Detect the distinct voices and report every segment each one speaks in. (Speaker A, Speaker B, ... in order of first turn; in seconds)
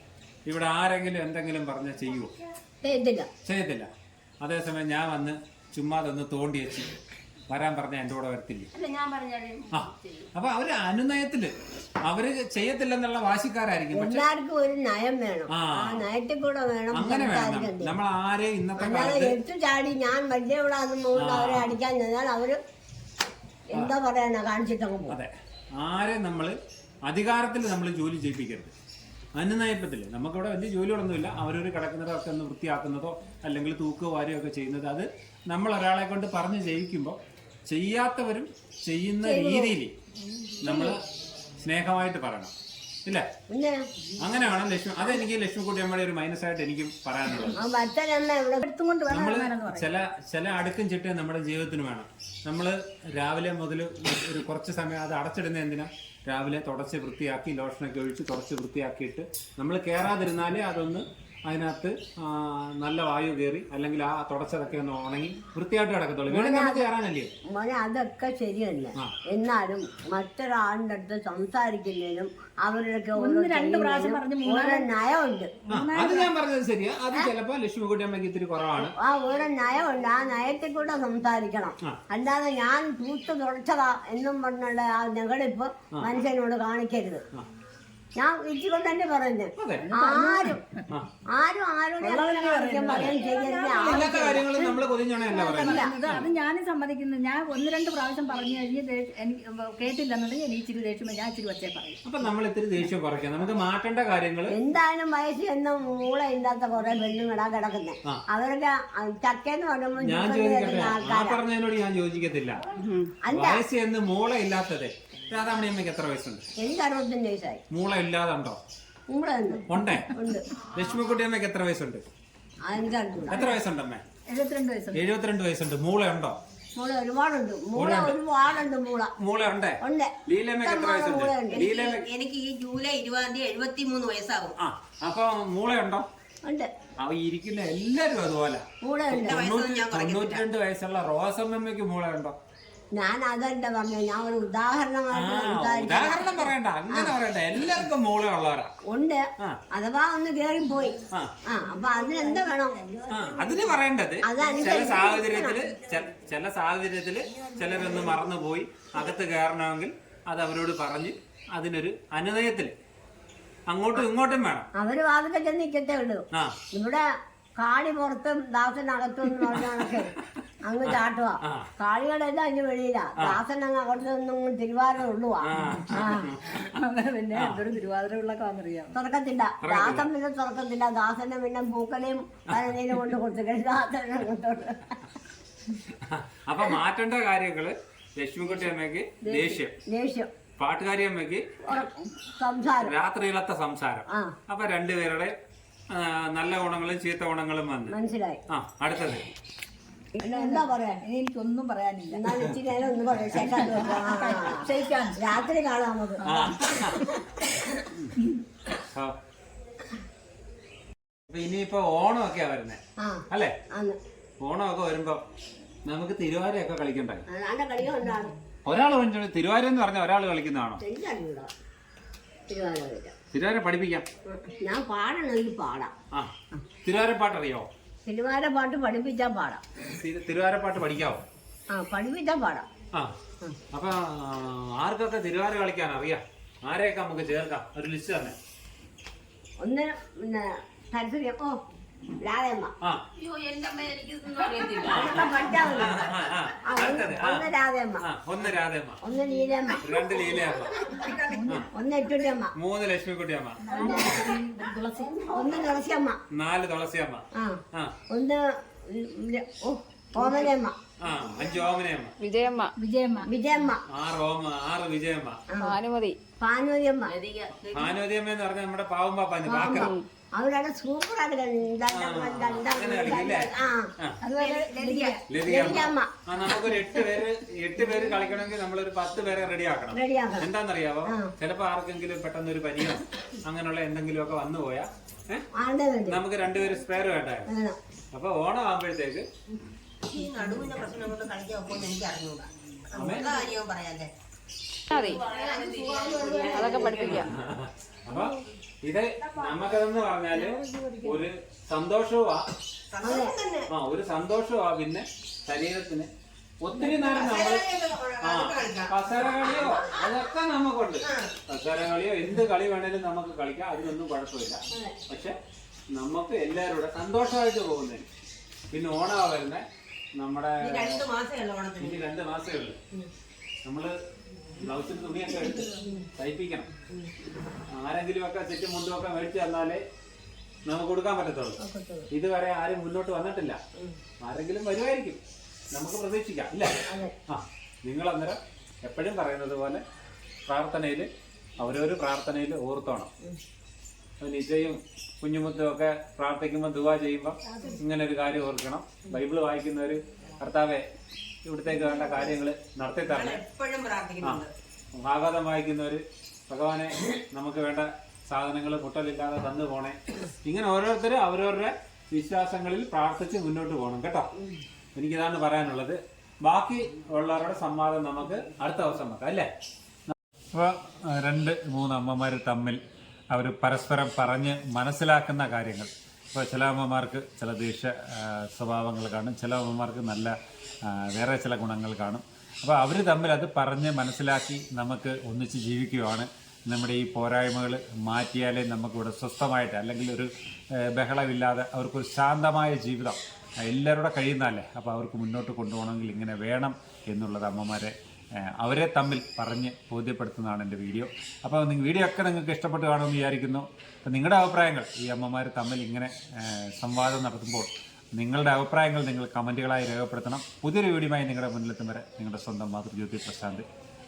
Speaker A: 0.5-2.3, 3.5-3.9, 4.4-8.7, 9.7-14.2, 15.5-16.1, 16.9-19.4, 21.1-21.8, 25.1-28.7, 29.4-39.9, 40.6-41.0, 41.6-42.5, 44.2-47.6, 49.1-67.3, 75.7-79.0, 85.9-86.2, 89.6-89.9, 93.7-96.3, 102.0-104.5, 110.0-112.6, 113.3-116.4, 117.7-118.6, 119.7-120.1, 120.8-122.0, 123.3-124.0, 124.9-126.4, 127.8-128.2, 129.2-132.1, 134.6-136.1, 137.0-142.4, 145.1-148.7, 153.1-162.7, 163.7-164.7, 166.3-166.6, 170.8-171.7, 175.4-176.8, 177.3-177.6, 179.6-180.1, 185.9-189.8, 190.6-191.5, 192.8-195.3, 195.9-198.0, 198.5-199.2, 206.2-207.1, 211.3-213.5, 214.4-215.2, 215.9-217.2, 218.7-220.8, 223.3-224.1, 226.1-227.7, 230.0-231.2, 233.7-238.4, 244.8-247.5, 248.0-249.0, 249.8-250.8, 252.6-253.6, 256.3-257.9, 261.0-262.1, 263.9-265.4, 267.7-269.9, 271.9-274.2, 275.3-285.5, 286.1-287.5, 288.1-289.3, 292.9-293.3, 297.2-302.5, 303.7-306.1, 306.6-307.7, 308.2-315.4, 315.9-318.1, 318.7-321.1, 321.8-322.8, 323.6-323.9, 324.6-326.7, 327.7-329.8, 330.7-331.6, 332.1-333.6, 334.2-335.2, 335.7-339.8, 340.5-343.1, 344.2-350.9, 351.5-353.4, 355.0-364.3, 365.0-369.5, 370.1-372.8, 373.3-413.7
Speaker B: 2.8-3.3, 13.9-17.9, 18.8-22.6, 23.7-25.2, 39.2-39.8, 40.4-41.0, 43.5-43.9, 47.5-48.6, 66.3-66.9, 67.4-75.6, 78.8-87.2, 88.2-90.6, 91.3-94.8, 95.5-95.9, 104.5-111.4, 113.2-113.6, 116.6-117.6, 119.1-120.5, 122.7-123.5, 126.8-129.1, 129.8-131.7, 136.4-136.7, 138.8-139.4, 142.9-147.1, 148.8-152.9, 154.2-155.6, 164.8-167.1, 167.6-176.3, 178.9-185.0, 189.2-190.3, 191.7-192.9, 194.1-194.4, 197.9-198.4, 200.2-201.0, 202.1-207.4, 213.0-214.0, 217.3-218.4, 220.8-221.5, 222.5-223.2, 224.3-225.9, 228.1-229.6, 231.7-232.7, 239.6-241.6, 242.2-242.7, 244.8-246.1, 246.7-248.0, 249.0-250.9, 251.7-252.5, 253.7-254.3, 255.2-256.2, 257.3-260.8, 263.2-263.8, 265.5-265.8, 266.4-267.1, 269.5-273.9, 275.4-276.2, 279.9-280.5, 281.1-281.3, 285.5-286.2, 287.5-287.8, 293.0-293.3, 295.1-297.3, 303.0-303.4, 331.6-332.1, 336.9-337.1
Speaker C: 8.7-10.3, 112.8-113.1, 131.5-134.6, 139.1-140.4, 243.2-245.7, 250.7-251.5, 260.2-260.4, 267.1-267.9, 274.4-275.2, 290.1-294.1, 294.9-297.3, 302.9-303.7, 306.8-310.0, 311.1-311.3, 320.6-322.0, 353.1-354.5
Speaker D: 48.6-49.9, 73.2-74.9, 75.7-76.3, 89.9-90.8, 92.0-94.8, 95.3-102.0, 124.3-125.0, 175.6-178.9, 200.2-202.3, 203.3-205.2, 206.2-206.8, 251.2-251.7, 253.6-255.3, 262.8-263.3, 274.2-275.2, 300.7-300.9, 347.5-347.8
Speaker E: 262.2-262.7, 265.6-266.2, 269.7-270.0, 294.9-295.2, 296.4-297.3